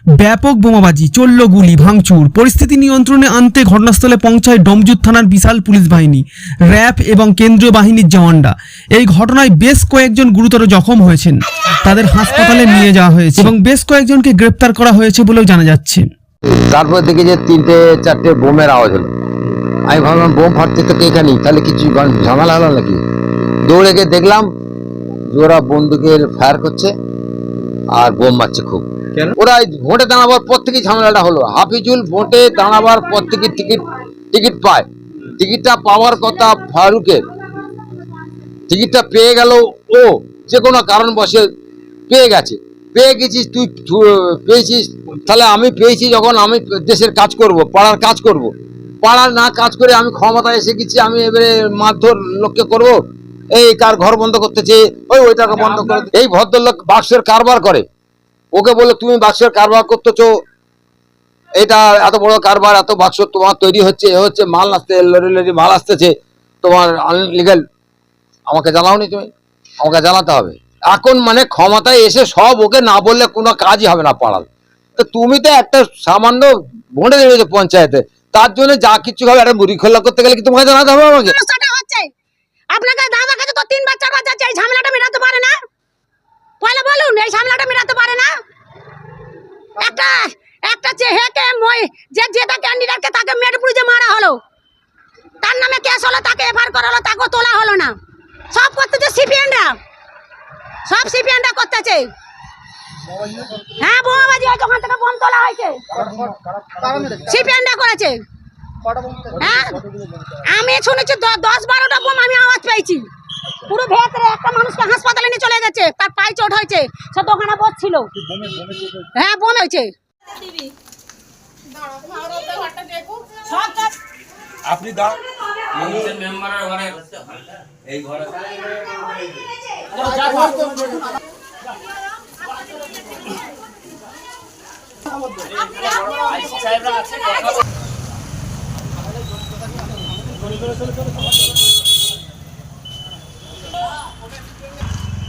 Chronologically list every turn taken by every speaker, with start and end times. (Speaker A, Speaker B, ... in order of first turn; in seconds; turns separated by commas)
Speaker A: 0.2-16.1, Speaker B: 16.7-19.1, Speaker B: 19.9-23.0, Speaker B: 23.7-24.5, Speaker B: 25.3-26.9, Speaker B: 27.9-34.9, Speaker B: 35.4-37.2, Speaker B: 38.7-41.5, Speaker B: 42.1-53.0, Speaker B: 53.5-57.8, Speaker B: 58.5-60.3, Speaker B: 61.6-67.6, Speaker B: 68.5-69.3, Speaker B: 69.8-81.3, Speaker C: 81.3-82.1, Speaker C: 82.7-85.5, Speaker C: 86.6-88.3, Speaker C: 89.8-94.4, Speaker C: 95.4-98.0, Speaker C: 98.5-99.8, Speaker C: 100.9-102.1, Speaker C: 103.8-105.8, Speaker D: 105.9-107.3, Speaker C: 107.3-108.2, Speaker D: 109.0-109.5, Speaker C: 109.4-109.8, Speaker C: 110.5-113.1, Speaker C: 113.7-118.1, Speaker D: 118.3-119.1, Speaker C: 119.2-119.9, Speaker C: 122.2-123.9, Speaker D: 124.7-125.2, Speaker D: 125.7-127.3, Speaker D: 127.9-128.4, Speaker D: 130.2-131.0, Speaker D: 136.6-137.2